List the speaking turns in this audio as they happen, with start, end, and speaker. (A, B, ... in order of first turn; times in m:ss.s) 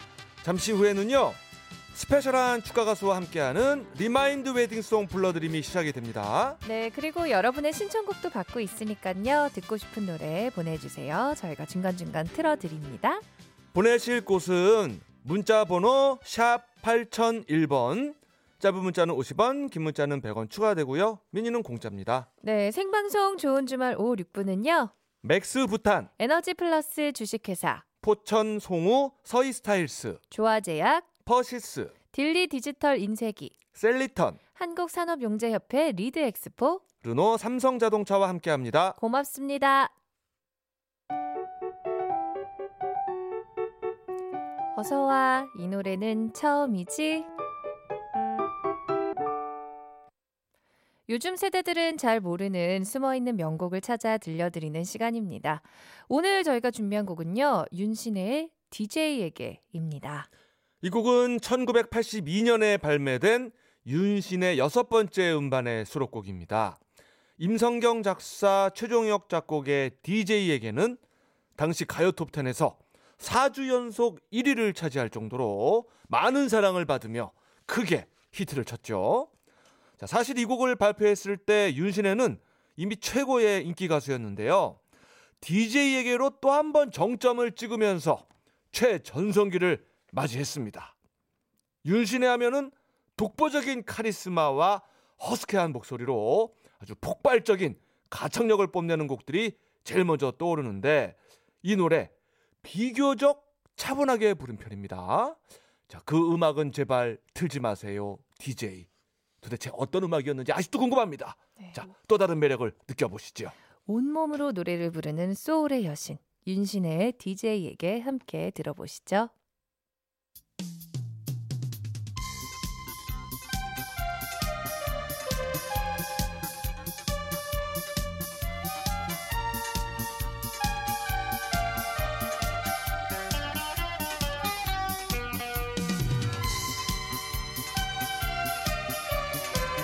0:00.4-0:01.4 A
0:01.9-0:06.6 A
0:06.6-0:13.2 B
0:13.7-0:22.3 A
0:22.4-0:24.9 B
0:25.2-0:26.1 A
0:26.2-0:27.8 B
0:28.0-0:30.2 A
0:30.3-0:31.1 B
0:31.2-0:31.9 A
0:32.1-0:33.5 B
0:33.7-0:34.4 A
0:34.6-0:36.8 B
0:37.0-0:39.0 A
0:39.0-0:39.9 B
0:44.8-0:47.3 B
0:51.1-1:00.3 B
1:00.8-1:06.8 A
1:07.4-1:11.0 A
1:11.6-1:19.3 A
1:20.0-1:24.8 A
1:25.4-1:30.9 A
1:31.8-1:48.9 A
1:49.4-1:53.5 A
1:51.6-1:51.8 B
1:53.9-1:59.3 B